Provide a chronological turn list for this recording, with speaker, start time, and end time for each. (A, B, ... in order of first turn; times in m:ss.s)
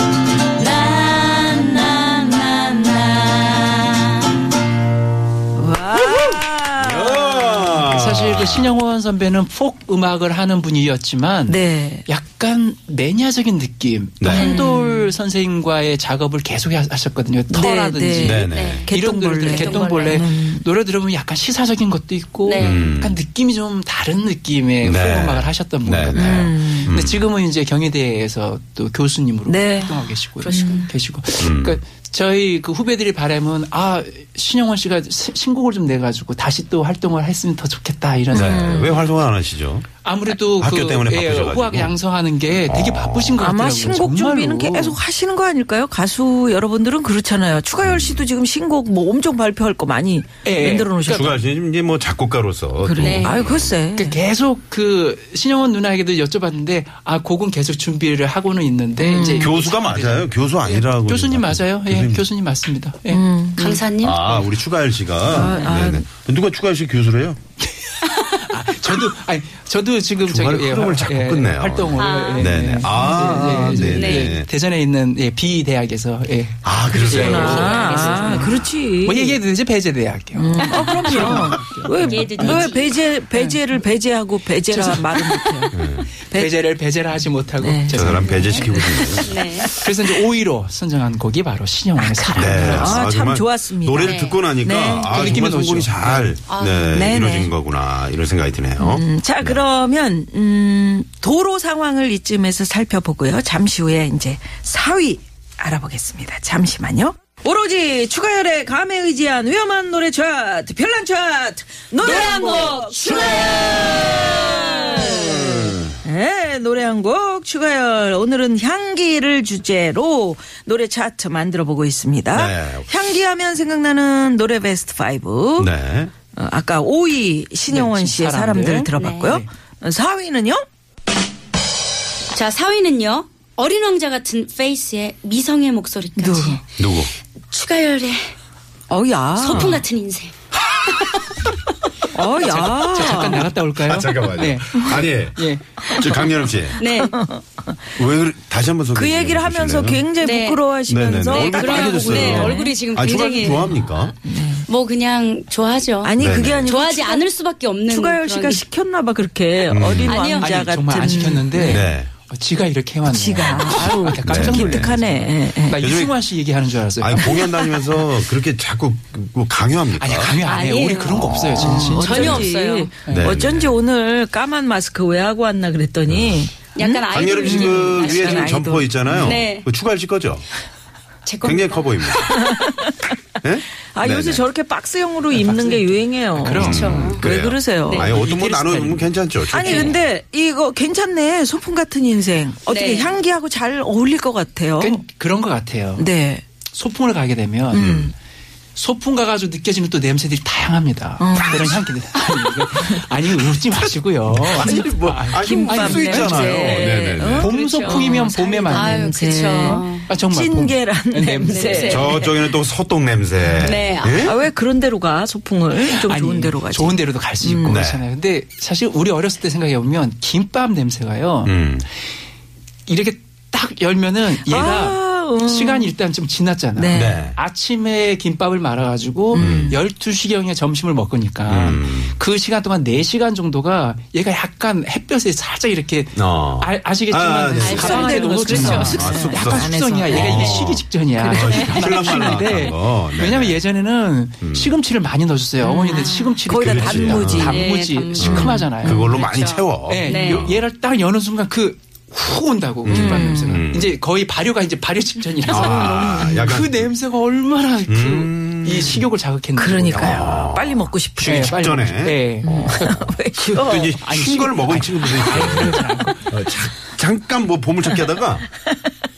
0:00.6-0:04.3 A
0:05.6-0:07.7 B
0:06.0-0:08.8 C
0:07.8-0:38.9 D
0:11.5-0:12.1 B
0:14.2-0:14.5 C
0:14.2-0:15.1 B
0:17.5-0:20.6 B
0:18.2-0:18.9 C
0:18.5-0:18.9 A
0:19.5-0:20.3 A
0:22.4-0:22.9 A
0:22.6-0:23.2 C
0:24.8-0:27.2 C
0:26.1-0:26.9 B
0:29.5-0:30.0 B
0:30.4-0:30.9 A
0:30.5-0:30.8 B
0:31.4-0:31.8 C
0:38.3-0:39.0 B
0:38.3-0:39.9 C
0:40.0-0:45.0 D
0:40.6-0:42.0 C
0:42.6-0:43.5 C
0:43.4-0:51.4 B
0:47.8-0:48.2 C
0:50.4-0:51.3 D
0:51.1-0:53.7 C
0:52.8-0:54.2 B
0:53.0-0:53.4 A
0:54.0-1:03.2 D
0:59.0-0:59.5 B
0:59.4-1:02.3 C
1:03.1-1:03.8 B
1:03.6-1:04.5 A
1:04.0-1:07.4 C
1:05.2-1:06.1 B
1:07.8-1:22.7 D
1:10.2-1:14.5 C
1:12.0-1:12.6 A
1:12.9-1:13.9 B
1:13.8-1:14.4 A
1:16.6-1:17.8 C
1:16.9-1:19.4 B
1:17.2-1:18.5 A
1:20.4-1:25.8 B
1:20.7-1:21.3 A
1:22.0-1:23.0 A
1:23.3-1:23.6 D
1:24.7-1:25.7 D
1:25.7-1:26.1 C
1:26.3-1:26.6 B
1:26.3-1:29.2 D
1:27.6-1:29.9 B
1:27.9-1:29.4 C
1:28.3-1:28.5 A
1:29.3-1:29.7 A
1:29.7-1:33.1 D
1:32.0-1:35.4 B
1:32.3-1:39.6 C
1:34.0-1:34.4 A
1:35.0-1:36.4 D
1:36.5-1:36.9 A
1:36.9-1:37.5 B
1:38.8-2:05.7 B
1:52.0-1:55.2 A
1:55.4-1:55.9 C
2:02.3-2:02.9 C
2:05.6-2:06.1 C
2:06.3-2:10.6 B
2:07.7-2:09.5 D
2:09.0-2:09.4 A
2:12.3-2:16.6 A
2:16.2-2:16.6 B
2:16.8-2:17.1 C
2:17.5-2:18.3 A
2:18.9-2:19.8 B
2:19.4-2:20.3 A
2:19.5-2:19.8 C
2:22.1-2:23.5 B
2:22.3-2:26.2 D
2:23.8-2:26.8 C
2:26.8-2:27.2 A
2:26.8-2:27.7 B
2:28.0-2:30.0 C
2:29.0-2:34.7 B
2:30.2-2:30.6 A
2:30.9-2:34.1 C
2:31.3-2:34.1 A
2:34.7-2:38.6 A
2:36.0-2:37.2 B
2:36.2-2:36.7 C
2:37.9-2:41.9 B
2:39.7-2:40.2 C
2:40.1-2:40.7 A
2:40.4-2:47.4 D
2:41.6-2:42.1 C
2:43.1-2:45.8 B
2:44.2-2:45.0 C
2:45.8-2:46.2 C
2:47.0-2:50.4 C
2:50.0-2:52.5 D
2:50.4-2:52.9 A
2:51.1-2:52.4 C
2:51.6-2:59.0 B
2:53.0-2:53.3 D
2:53.1-2:53.8 C
2:56.1-2:56.4 C
2:56.8-2:59.7 A
2:57.1-3:00.4 C
2:59.1-2:59.4 D
3:01.3-3:02.2 A
3:01.4-3:02.4 C
3:02.2-3:03.0 B
3:03.4-3:04.4 C
3:03.9-3:08.1 B
3:05.3-3:07.3 D
3:06.5-3:10.1 C
3:06.6-3:07.2 A
3:07.9-3:08.1 A
3:08.0-3:09.1 D
3:09.5-3:15.0 B
3:09.6-3:09.9 A
3:12.7-3:13.1 A
3:14.8-3:16.1 D
3:16.0-3:16.4 B
3:16.7-3:17.9 D
3:17.7-3:18.1 C
3:17.7-3:18.1 B
3:18.8-3:26.8 D
3:21.2-3:21.8 B
3:24.3-3:27.5 C
3:25.3-3:32.3 B
3:26.1-3:30.1 A
3:27.4-3:29.1 D
3:29.6-3:32.0 D
3:31.4-3:32.3 A
3:31.9-3:34.4 C
3:33.6-3:34.4 A
3:34.2-3:37.8 B
3:35.8-3:41.6 D
3:37.7-3:38.0 C
3:41.4-3:41.8 C
3:42.9-4:09.0 D
3:44.4-3:45.9 B
3:46.8-3:47.2 B
3:46.9-3:47.4 C
3:49.3-3:49.8 B
3:49.4-3:49.8 C
3:51.5-3:52.2 C
3:56.2-4:03.6 C
3:57.5-4:00.6 B
3:57.6-3:59.2 A
4:00.2-4:00.7 A
4:01.2-4:02.2 B
4:01.2-4:02.3 A
4:04.4-4:04.7 C
4:05.6-4:07.7 B
4:05.8-4:06.3 A
4:06.5-4:07.6 C
4:07.4-4:10.5 A
4:08.2-4:10.6 C
4:08.2-4:09.1 B
4:09.9-4:20.4 D
4:12.8-4:14.0 C
4:12.9-4:13.6 B
4:15.4-4:16.6 B
4:15.5-4:16.9 C
4:17.9-4:19.1 C
4:19.6-4:21.6 B
4:20.0-4:28.5 C
4:21.2-4:26.3 D
4:22.4-4:24.0 B